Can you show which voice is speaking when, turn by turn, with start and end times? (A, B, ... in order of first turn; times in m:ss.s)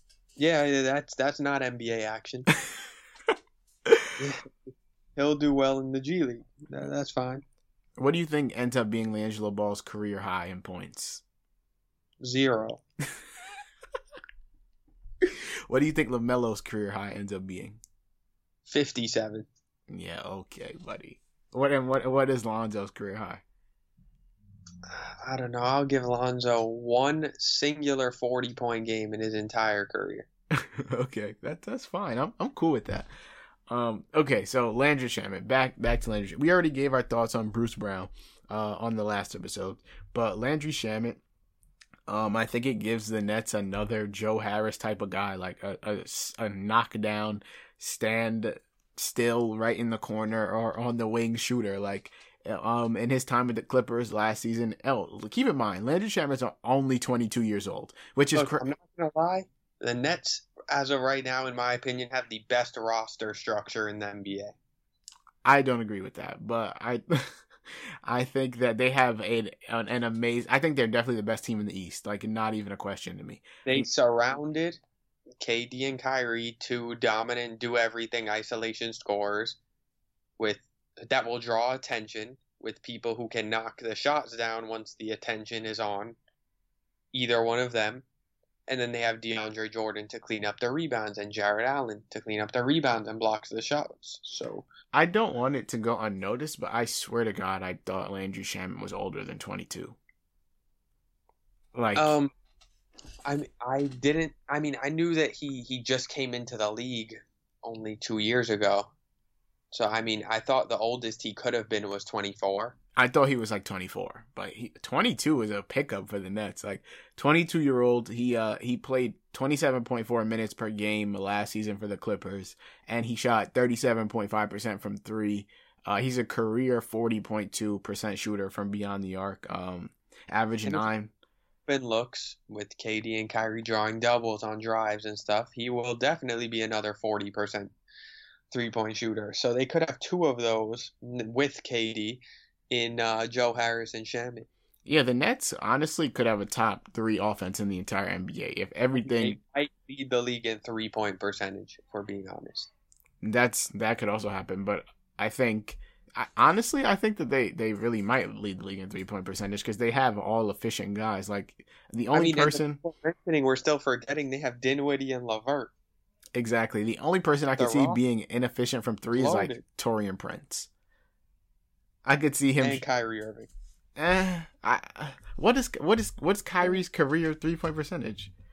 0:00.4-0:02.5 A
0:04.2-0:07.4 A
0:08.0-0:11.2 B
0:12.2-0:12.8 A
0:15.2-0:17.8 B
0:18.6-0:19.5 A
0:19.9-0:23.4 B
0:24.8-0:30.2 A
0:30.5-0:33.1 B
0:33.7-0:41.2 B
0:42.1-0:58.7 B
0:58.3-1:04.5 A
1:05.4-1:07.3 B
1:08.0-1:13.8 B
1:13.6-1:14.8 A
1:15.4-1:19.6 A
1:20.4-1:26.2 A
1:27.1-1:28.0 A
1:28.7-1:34.7 A
1:34.9-1:40.0 B
1:41.7-1:42.1 B
1:41.9-1:42.3 A
1:43.2-1:48.9 A
1:49.7-1:52.7 A
1:53.0-2:11.1 B
2:11.7-2:17.7 A
2:18.5-2:24.5 A
2:24.8-2:29.4 B
2:29.0-2:32.7 A
2:33.2-2:42.8 B
2:42.1-2:45.7 A
2:46.3-2:50.7 B
2:47.6-2:48.0 A
2:49.2-2:49.6 A
2:52.0-2:52.8 B
2:52.6-2:53.5 A
2:54.0-2:58.3 B